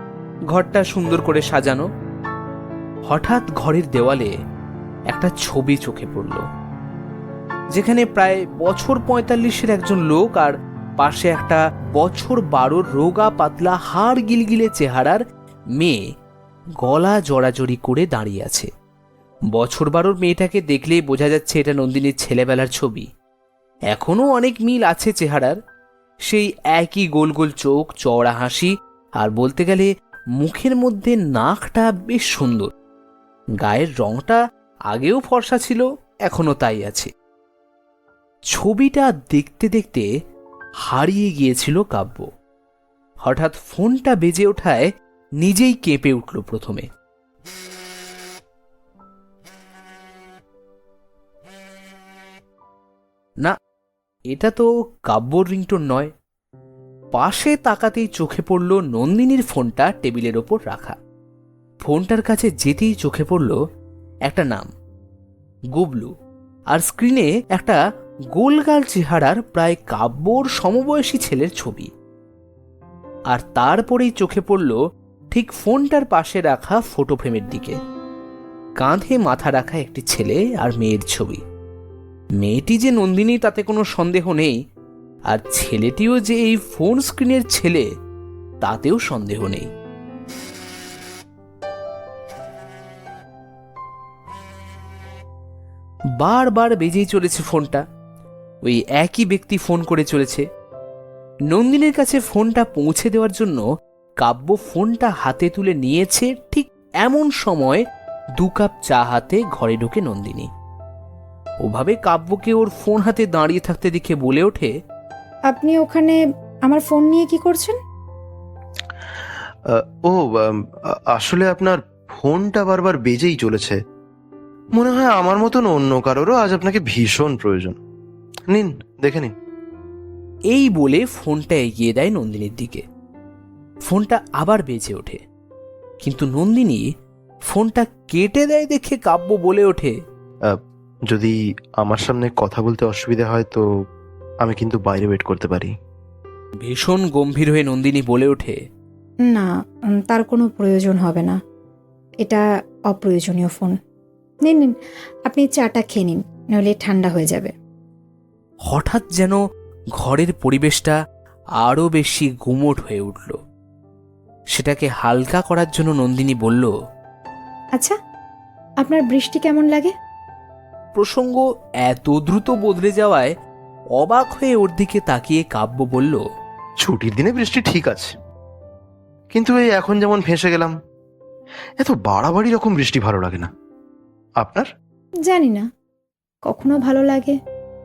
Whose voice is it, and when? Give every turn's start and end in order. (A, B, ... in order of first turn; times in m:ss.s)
0:00.5-0:01.8 A
0:03.1-0:04.3 A
0:05.1-0:06.4 A
0:07.7-0:15.2 A
0:16.8-0:18.7 A
0:19.5-0:23.1 A
0:23.9-0:25.6 A
0:26.3-0:32.7 A
0:33.6-0:34.4 A
0:34.9-0:37.1 A
0:38.5-0:40.1 A
0:40.9-0:42.3 A
0:43.2-0:44.9 A
0:45.4-0:46.9 A
0:54.3-0:56.1 A
0:57.1-1:01.0 A
1:01.8-1:03.6 A
1:04.3-1:04.7 A
1:05.7-1:06.1 A
1:06.7-1:07.8 A
1:08.3-1:11.9 A
1:13.3-1:14.8 A
1:15.3-1:17.8 A
1:18.8-1:21.4 A
1:22.4-1:24.6 A
1:25.3-1:27.9 A
1:28.6-1:29.7 A
1:36.2-1:37.8 A
1:38.6-1:40.5 A
1:41.5-1:43.6 A
1:44.2-1:47.8 A
1:48.4-1:50.5 A
1:51.6-1:54.7 A
1:55.5-1:57.8 B
1:59.7-2:03.8 C
2:04.8-2:07.8 C
2:08.5-2:09.3 C
2:10.5-2:12.8 A
2:13.9-2:15.2 A
2:16.0-2:16.8 A
2:17.5-2:19.9 A
2:21.1-2:23.6 C
2:24.4-2:25.7 C
2:26.6-2:28.6 A
2:29.2-2:31.4 B
2:32.2-2:33.8 B
2:34.5-2:34.7 B
2:35.3-2:37.5 B
2:38.7-2:39.4 A
2:40.0-2:41.0 A
2:41.6-2:43.4 A
2:44.6-2:46.7 A
2:48.8-2:49.9 B
2:51.0-2:53.3 A
2:54.0-2:56.2 A
2:56.8-2:58.1 C
2:59.3-3:00.8 C
3:01.8-3:03.5 C
3:04.4-3:04.7 C
3:05.3-3:05.7 B
3:06.5-3:07.4 B